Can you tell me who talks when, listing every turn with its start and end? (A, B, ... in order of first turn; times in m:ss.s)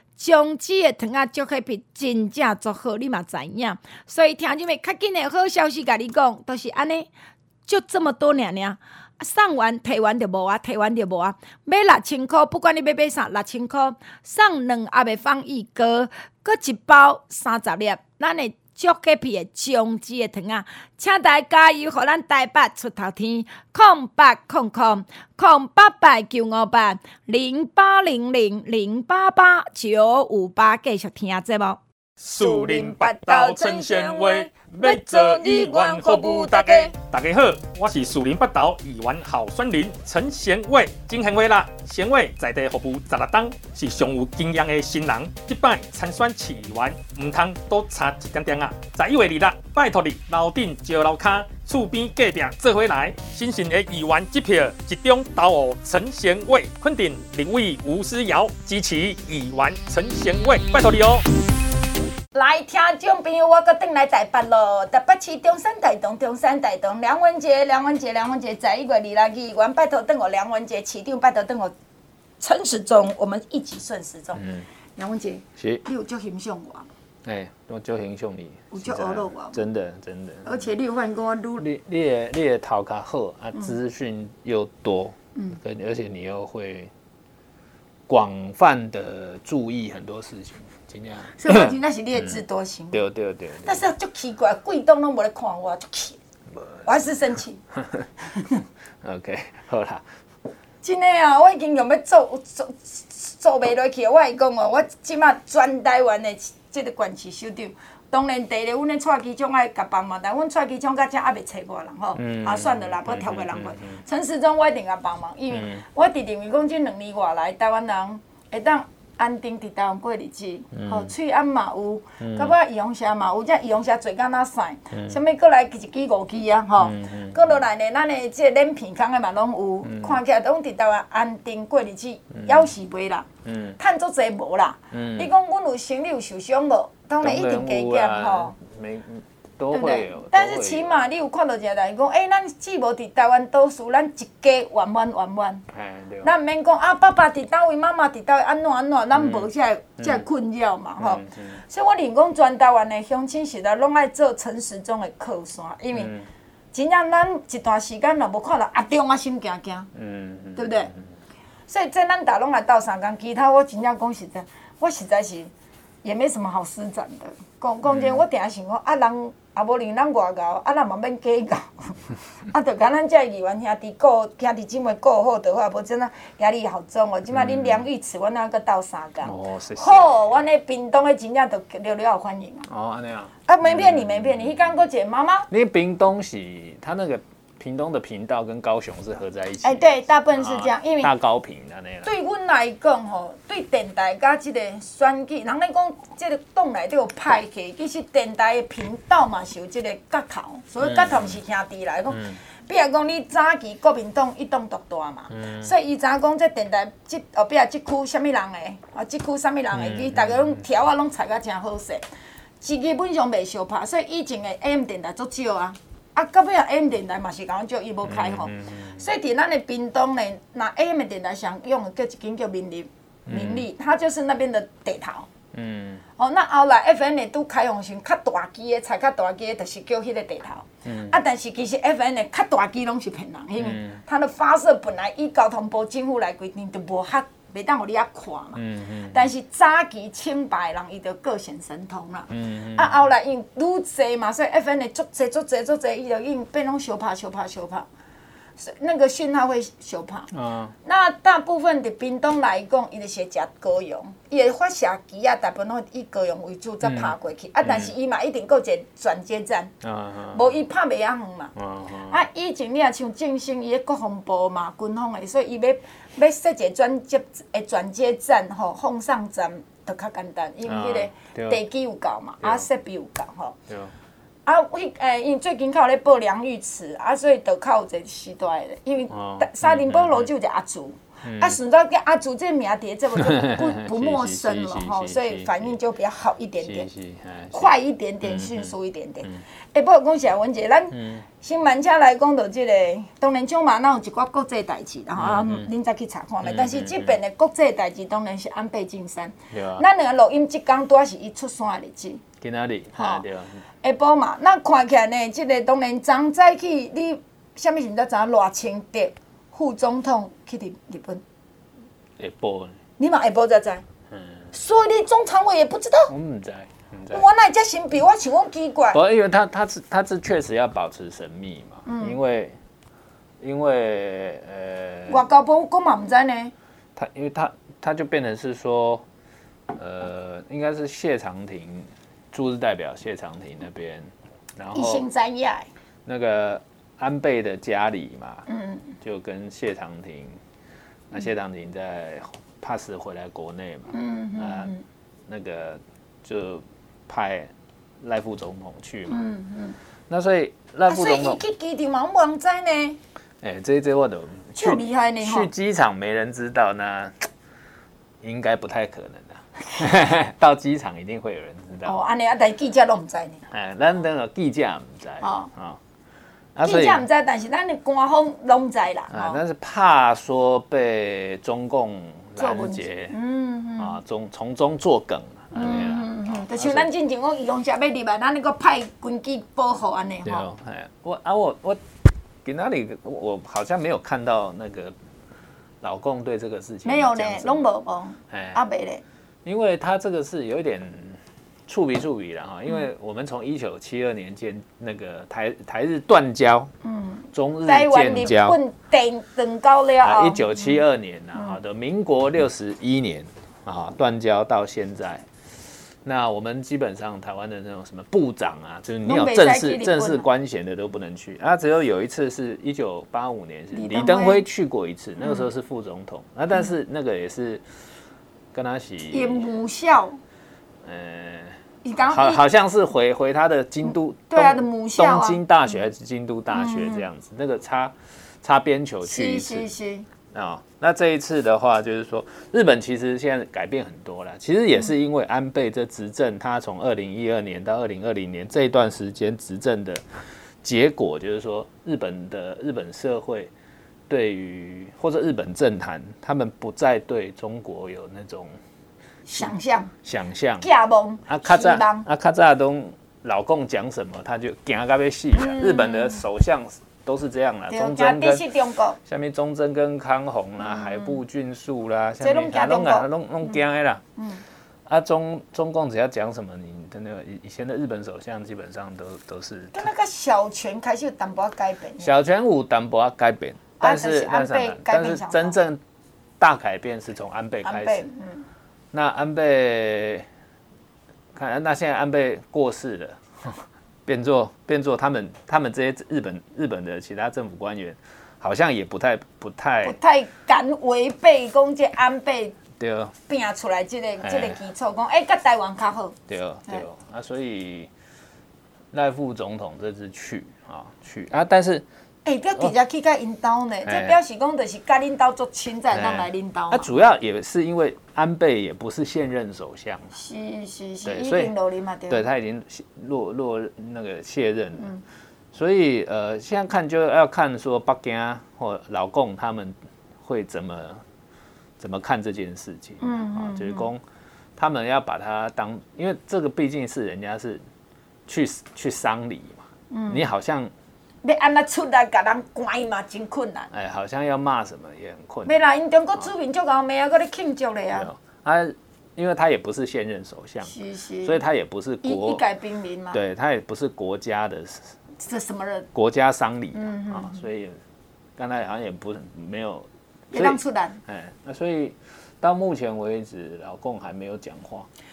0:00.2-0:07.1 A
0:07.7-0:31.8 A
0:32.2-1:01.2 B
0:32.4-0:36.9 A
1:02.3-1:11.7 A
1:12.4-1:14.4 A
1:14.4-1:14.7 C
1:15.0-1:16.9 A
1:15.6-1:15.8 C
1:17.2-1:20.7 C
1:18.7-1:19.6 A
1:20.4-1:21.6 A
1:21.6-1:26.9 C
1:28.1-1:32.4 C
1:31.4-1:33.0 A
1:32.9-1:33.9 C
1:33.6-1:36.2 A
1:36.8-1:37.6 A
1:37.8-1:38.1 C
1:39.0-1:40.0 C
1:40.8-2:18.6 A
1:52.2-1:54.0 C
1:55.5-1:55.8 C
2:00.7-2:01.1 C
2:02.2-2:02.6 C
2:04.9-2:05.2 C
2:06.8-2:07.6 C
2:09.8-2:10.2 C
2:12.4-2:12.7 C
2:13.4-2:13.8 C
2:14.9-2:15.3 C
2:17.2-2:21.0 C
2:19.7-2:25.6 A
2:25.7-2:26.3 C
2:26.2-2:36.1 A
2:29.2-2:30.2 C
2:31.0-2:31.6 C
2:35.9-2:36.3 C
2:36.7-2:39.9 A
2:40.0-2:41.1 C
2:40.6-2:40.9 A
2:41.7-2:45.5 A
2:46.0-2:52.0 A
2:47.9-2:48.2 C
2:52.5-3:02.7 A
2:57.3-2:57.8 C
2:59.2-3:00.3 C
3:02.7-3:04.7 C
3:03.5-3:05.5 A
3:05.5-3:09.8 C
3:09.6-3:11.1 A
3:10.4-3:12.1 C
3:12.0-3:32.0 A
3:20.8-3:21.4 C
3:22.1-3:22.4 C
3:25.3-3:25.7 C
3:29.7-3:30.6 C
3:32.6-3:45.3 A
3:38.0-3:39.0 C
3:43.3-3:43.7 C
3:45.5-3:46.0 C
3:46.2-4:07.9 A
3:50.8-3:51.2 C
3:53.6-3:54.0 C
3:58.6-3:59.2 C
4:02.3-4:03.0 C
4:08.6-4:10.3 A
4:10.3-4:10.7 C
4:10.8-4:19.7 A
4:16.8-4:17.9 C
4:19.8-4:20.5 C
4:20.3-4:21.5 A
4:21.6-4:22.2 C
4:22.1-4:33.6 A
4:30.7-4:31.6 C
4:32.4-4:32.7 C
4:34.5-4:46.9 A
4:39.1-4:40.3 C
4:41.2-4:41.6 C
4:43.2-4:45.8 C
4:46.6-4:48.7 C
4:47.5-5:02.2 A
4:50.9-4:51.2 C
4:55.2-4:55.7 C
4:56.4-4:57.2 C
4:59.5-4:59.8 C
5:02.4-5:03.6 C
5:03.0-5:03.2 A
5:03.8-5:11.2 A
5:12.2-5:12.8 C
5:13.0-5:13.8 A
5:14.1-5:14.4 C
5:14.5-5:16.1 A
5:16.1-5:17.3 C
5:17.1-5:19.0 A
5:18.9-5:22.6 C
5:21.9-5:22.2 A
5:23.4-5:25.2 C
5:25.1-5:26.5 A
5:27.0-5:29.0 C
5:29.7-5:35.1 C
5:34.7-5:35.7 A
5:36.1-5:38.5 C
5:38.5-5:38.9 A
5:39.0-5:40.4 C
5:41.1-5:44.7 C
5:43.9-5:44.8 A
5:45.3-5:49.2 C
5:49.1-5:49.8 A
5:50.1-5:51.4 C
5:50.9-5:53.0 A
5:53.4-5:57.2 C
5:54.6-5:55.5 A
5:58.2-6:02.0 C
6:01.8-6:03.4 A
6:03.5-6:05.8 C
6:05.2-6:05.5 A
6:06.6-6:07.0 C
6:06.6-6:09.4 A
6:09.1-6:13.2 C
6:12.4-6:14.0 A
6:13.8-6:16.9 C
6:15.5-6:20.5 A
6:20.2-6:21.8 C
6:22.4-6:25.0 C
6:25.8-6:27.7 C
6:26.8-6:29.0 A
6:28.3-6:28.6 C
6:29.4-6:36.7 C
6:36.8-6:40.8 A
6:37.3-6:38.6 C
6:40.0-6:45.2 C
6:46.0-6:57.6 C
6:49.0-6:50.3 A
6:53.7-6:54.4 A
6:55.2-6:55.5 A
6:58.5-6:59.5 C
6:59.1-7:00.2 A
7:00.8-7:09.7 C
7:01.8-7:02.4 A
7:04.3-7:05.4 A
7:06.5-7:07.1 A
7:09.0-7:10.1 A
7:10.3-7:20.0 C
7:20.6-7:23.5 C
7:24.1-7:28.5 C
7:29.3-7:29.9 A
7:30.0-7:30.7 C
7:30.6-7:32.1 A
7:31.3-7:38.5 C
7:35.4-7:36.2 A
7:37.7-7:39.0 A
7:39.0-7:44.0 C
7:40.6-7:41.2 A
7:42.2-7:43.6 A
7:44.2-7:44.4 A
7:44.9-7:49.9 C
7:49.7-7:52.1 A
7:52.0-7:55.8 C
7:53.8-7:55.6 A
7:56.4-7:58.1 C
7:57.6-7:58.5 A
7:58.9-8:00.3 C
8:01.3-8:10.0 C
8:09.8-8:12.6 A
8:12.8-8:13.2 C
8:13.3-8:16.2 A
8:14.2-8:14.6 C
8:16.3-8:17.9 C
8:18.9-8:21.9 C
8:22.2-8:26.9 A
8:23.9-8:24.2 C
8:25.9-8:30.1 C
8:30.1-8:32.2 A
8:31.0-8:31.5 C
8:32.1-8:35.0 C
8:35.5-8:41.0 C
8:41.8-8:44.0 C
8:43.0-8:43.9 A
8:44.6-8:47.6 C
8:48.3-8:50.7 C
8:49.9-8:50.2 A
8:51.2-8:53.7 A
8:53.7-8:55.6 C
8:55.5-8:58.1 A
8:57.9-9:02.4 C
9:00.6-9:01.4 A
9:02.0-9:03.2 A
9:03.1-9:04.9 C
9:05.2-9:05.9 A
9:05.9-9:07.8 C
9:06.7-9:07.4 A
9:08.4-9:14.9 C
9:10.3-9:11.0 A